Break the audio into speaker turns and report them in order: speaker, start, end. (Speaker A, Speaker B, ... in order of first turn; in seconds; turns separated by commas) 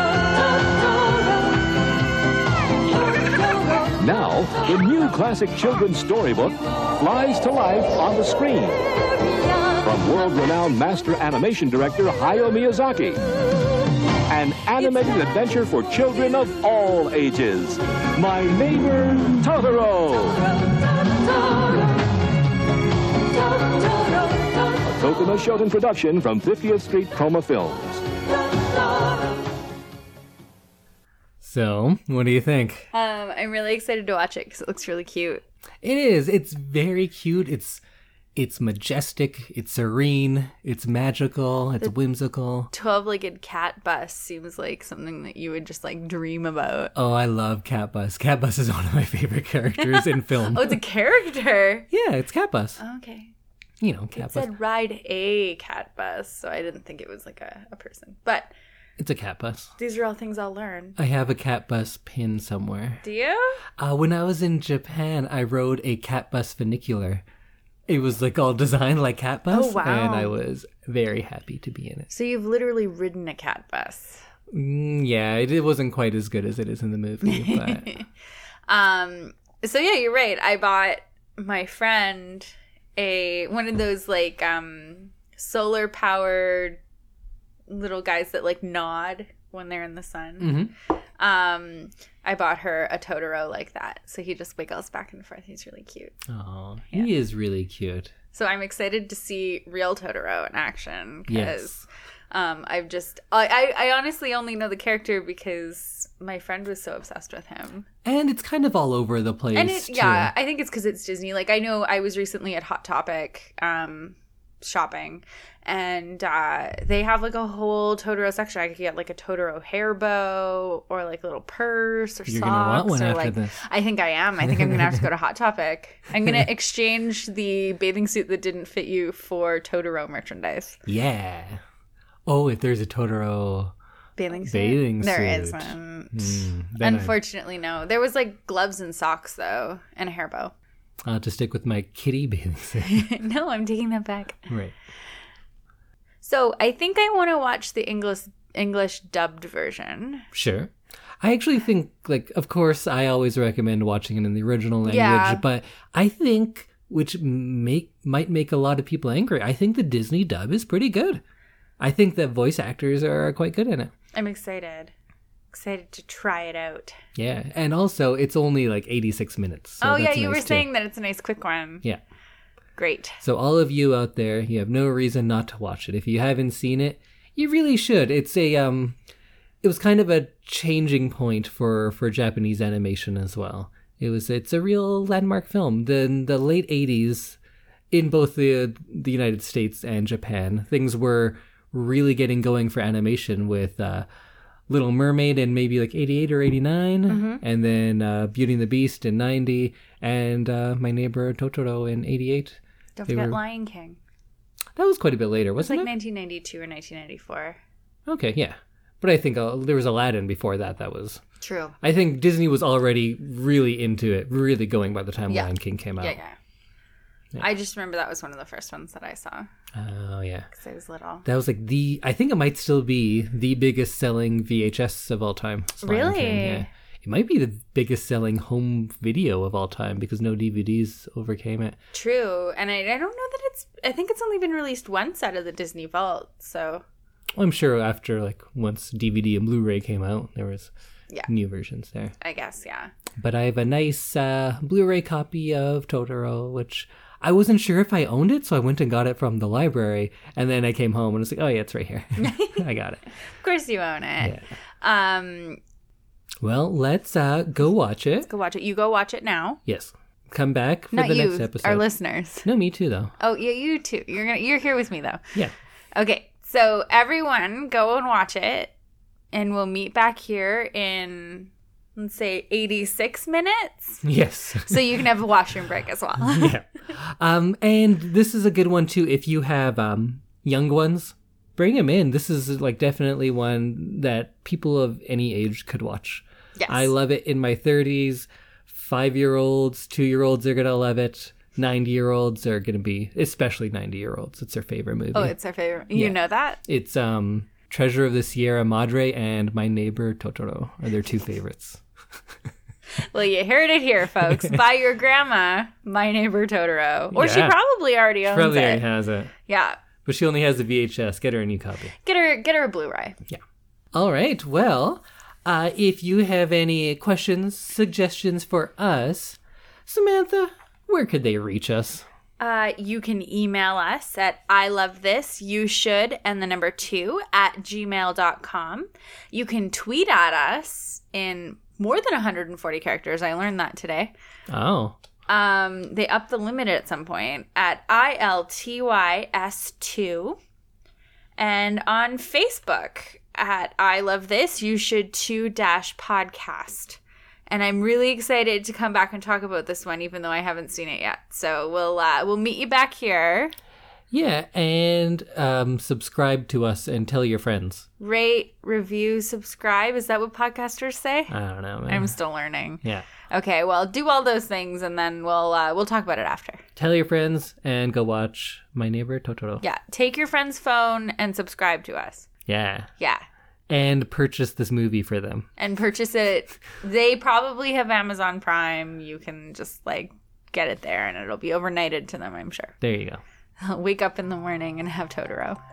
Speaker A: 4.0-8.8, Speaker A: 9.8-13.2, Speaker A: 14.3-20.5, Speaker A: 24.8-28.0, Speaker B: 31.4-32.9, Speaker C: 32.9-35.4, Speaker B: 35.8-37.8, Speaker B: 38.3-42.7, Speaker C: 42.7-46.9, Speaker B: 46.9-50.8, Speaker C: 49.8-51.9, Speaker B: 51.9-52.8, Speaker C: 52.8-53.3, Speaker B: 53.8-54.5, Speaker C: 54.1-58.5, Speaker B: 59.0-59.7, Speaker C: 59.8-61.0, Speaker B: 61.0-63.0, Speaker C: 63.0-63.6, Speaker B: 63.8-67.2, Speaker B: 67.9-72.1, Speaker C: 69.5-70.3, Speaker C: 72.1-74.2, Speaker B: 74.5-78.0, Speaker C: 77.2-78.0, Speaker C: 78.7-86.8, Speaker C: 87.7-90.6, Speaker B: 90.4-90.7, Speaker C: 91.2-96.2, Speaker B: 96.3-98.1, Speaker C: 98.3-107.9, Speaker B: 101.3-101.8, Speaker B: 108.0-110.3, Speaker C: 109.5-130.8, Speaker B: 122.3-123.5, Speaker B: 124.5-125.0, Speaker B: 130.8-131.6, Speaker B: 132.2-133.7, Speaker C: 134.2-140.5, Speaker B: 134.4-137.2, Speaker B: 141.0-143.1, Speaker C: 142.9-144.5, Speaker B: 144.5-144.7, Speaker C: 146.2-150.2, Speaker B: 150.3-161.2, Speaker C: 154.8-155.4, Speaker B: 161.8-163.9, Speaker C: 164.1-164.9, Speaker C: 165.5-167.0, Speaker B: 167.1-170.7, Speaker C: 169.8-171.8, Speaker C: 172.8-173.2, Speaker B: 173.2-179.0, Speaker B: 179.6-187.4, Speaker B: 187.9-194.1, Speaker B: 194.7-203.4, Speaker C: 197.1-197.4, Speaker C: 203.0-204.0, Speaker B: 204.8-205.9, Speaker C: 205.6-207.6, Speaker B: 208.1-211.2, Speaker C: 211.4-211.8, Speaker B: 211.8-216.2, Speaker C: 215.3-216.3, Speaker C: 217.4-219.5, Speaker B: 219.7-220.5, Speaker C: 220.5-221.2, Speaker B: 221.2-231.8, Speaker C: 225.8-226.7, Speaker C: 231.9-236.8, Speaker B: 237.3-240.7, Speaker B: 241.3-242.1, Speaker C: 242.2-242.9, Speaker B: 243.2-253.0, Speaker C: 252.2-252.6, Speaker C: 253.4-255.6, Speaker B: 254.2-254.5, Speaker B: 256.4-258.3, Speaker C: 258.3-259.6, Speaker B: 259.6-261.9, Speaker C: 260.9-262.5, Speaker B: 262.4-263.1, Speaker C: 263.2-265.2, Speaker C: 265.9-268.7, Speaker C: 269.3-274.0, Speaker B: 274.0-275.0, Speaker C: 274.7-276.6, Speaker B: 276.2-295.3, Speaker C: 286.6-286.9, Speaker C: 295.1-296.6, Speaker B: 295.9-301.8, Speaker C: 303.0-308.8, Speaker B: 304.2-304.6, Speaker B: 307.1-307.6, Speaker B: 308.2-309.3, Speaker C: 309.5-309.8, Speaker B: 310.0-311.9, Speaker C: 312.0-313.2, Speaker B: 313.9-322.0, Speaker C: 322.4-334.1, Speaker B: 334.5-335.0, Speaker C: 335.3-340.4, Speaker C: 341.4-353.5, Speaker B: 354.1-357.9, Speaker C: 358.0-361.3, Speaker B: 361.3-362.1, Speaker C: 361.9-366.6, Speaker B: 366.8-369.6, Speaker C: 369.6-372.3, Speaker B: 372.5-372.9, Speaker C: 373.0-373.2, Speaker B: 373.7-375.5, Speaker C: 375.6-382.7, Speaker B: 382.8-383.2, Speaker C: 383.6-385.6